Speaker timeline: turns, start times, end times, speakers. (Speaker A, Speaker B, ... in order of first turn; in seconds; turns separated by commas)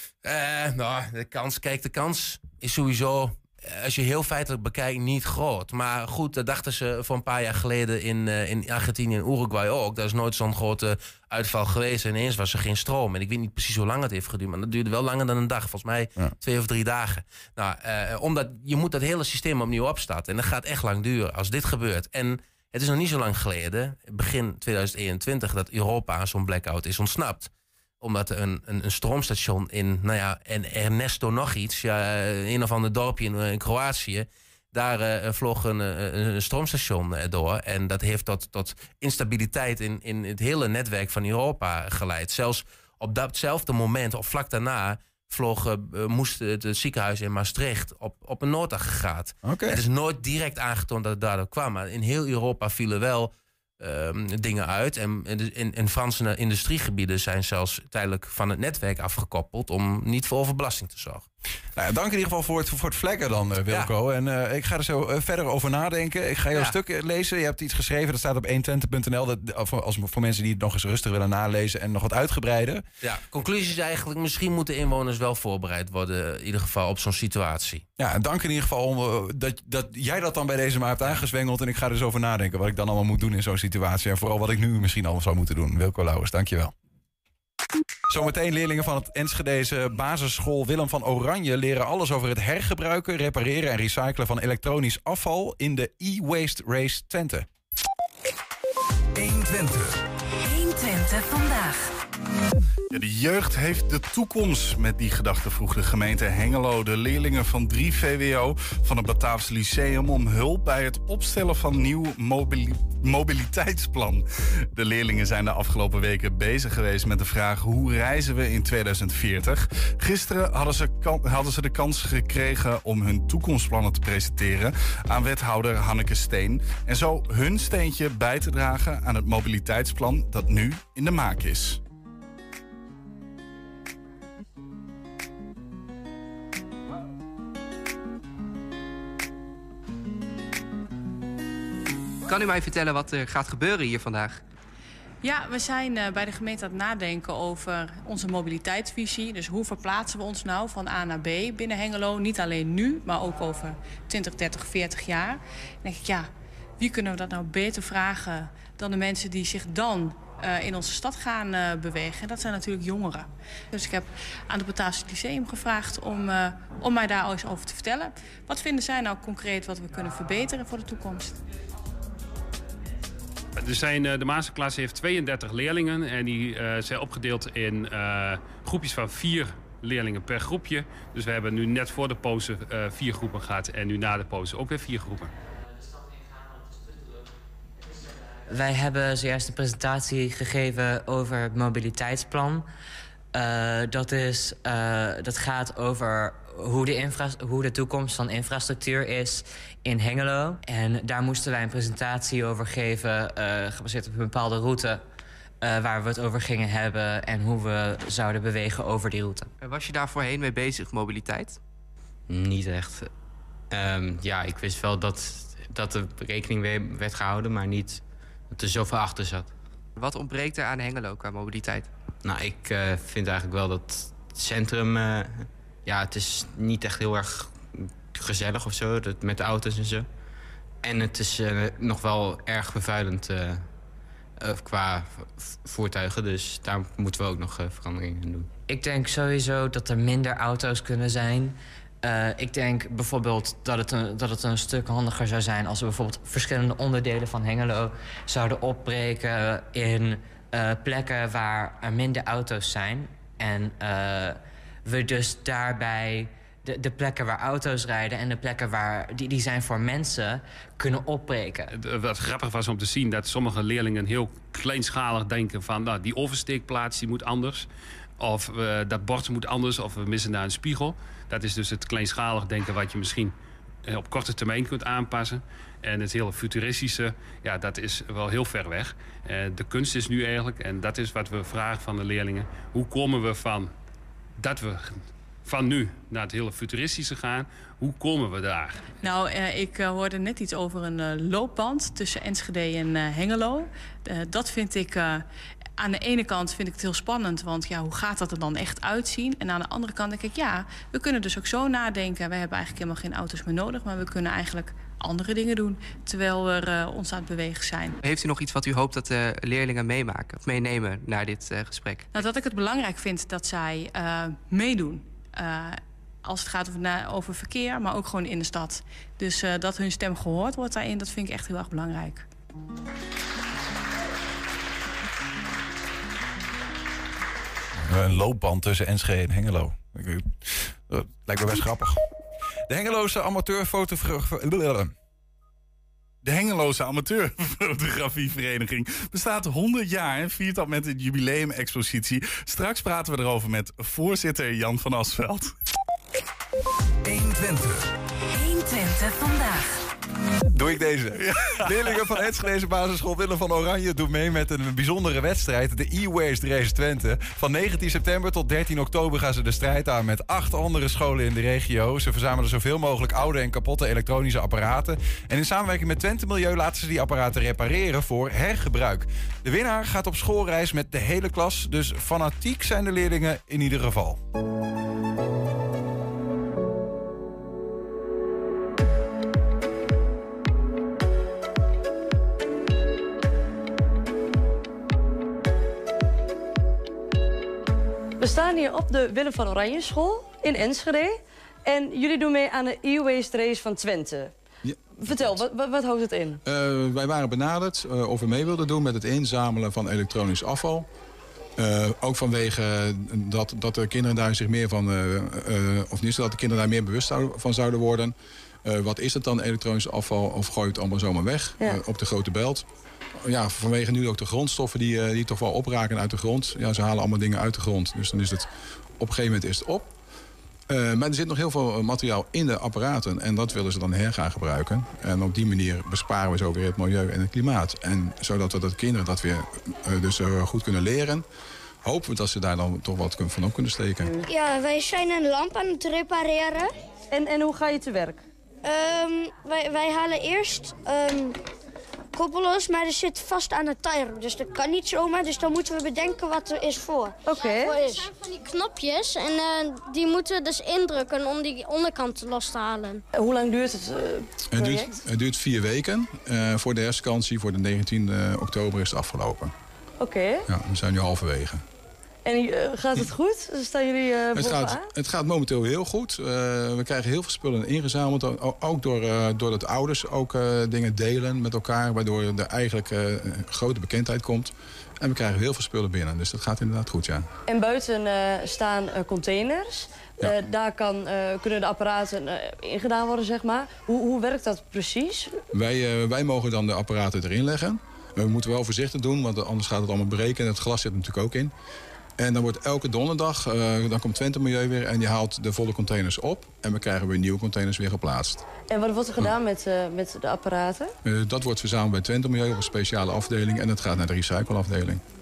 Speaker A: 0.2-27.5, Speaker A: 28.0-61.2, Speaker B: 49.4-49.8, Speaker B: 61.8-72.8, Speaker A: 73.0-77.8, Speaker B: 78.0-86.7, Speaker B: 88.1-97.5, Speaker C: 99.1-100.0, Speaker D: 100.5-101.5, Speaker C: 102.9-131.8, Speaker E: 142.3-144.4, Speaker F: 145.2-171.4, Speaker G: 173.6-185.3, Speaker D: 188.5-192.6, Speaker D: 193.3-205.0, Speaker D: 205.6-209.5, Speaker E: 209.6-211.6, Speaker H: 212.3-213.1, Speaker H: 213.7-219.5, Speaker E: 219.9-221.9, Speaker H: 222.2-230.1, Speaker H: 230.8-233.7, Speaker H: 234.4-238.5, Speaker D: 238.7-261.7, Speaker G: 261.7-267.7, Speaker G: 268.2-283.7, Speaker G: 284.4-288.9, Speaker F: 289.0-295.2, Speaker F: 295.8-308.0, Speaker E: 308.0-312.2, Speaker F: 312.1-322.2, Speaker B: 327.8-332.0, Speaker B: 332.7-334.9, Speaker C: 336.2-345.5, Speaker C: 347.0-347.9, Speaker D: 348.3-349.7, Speaker B: 350.5-374.2, Speaker C: 351.3-352.0, Speaker I: 388.2-394.3, Speaker J: 394.6-395.4, Speaker I: 395.0-396.4, Speaker J: 396.4-400.9, Speaker J: 401.6-408.1, Speaker J: 408.6-412.6, Speaker J: 413.2-418.5, Speaker J: 419.0-419.9, Speaker J: 420.7-431.2, Speaker J: 431.8-434.1, Speaker K: 434.3-436.6, Speaker I: 437.1-438.2, Speaker K: 438.6-441.3, Speaker K: 442.1-453.0, Speaker I: 447.2-447.8, Speaker I: 453.1-454.9, Speaker J: 454.5-459.5, Speaker I: 460.0-460.5, Speaker J: 460.5-461.6, Speaker I: 462.2-464.9, Speaker J: 464.4-477.3, Speaker I: 477.5-485.4, Speaker J: 485.5-491.5, Speaker J: 492.2-498.4, Speaker I: 498.6-500.9, Speaker J: 501.0-505.0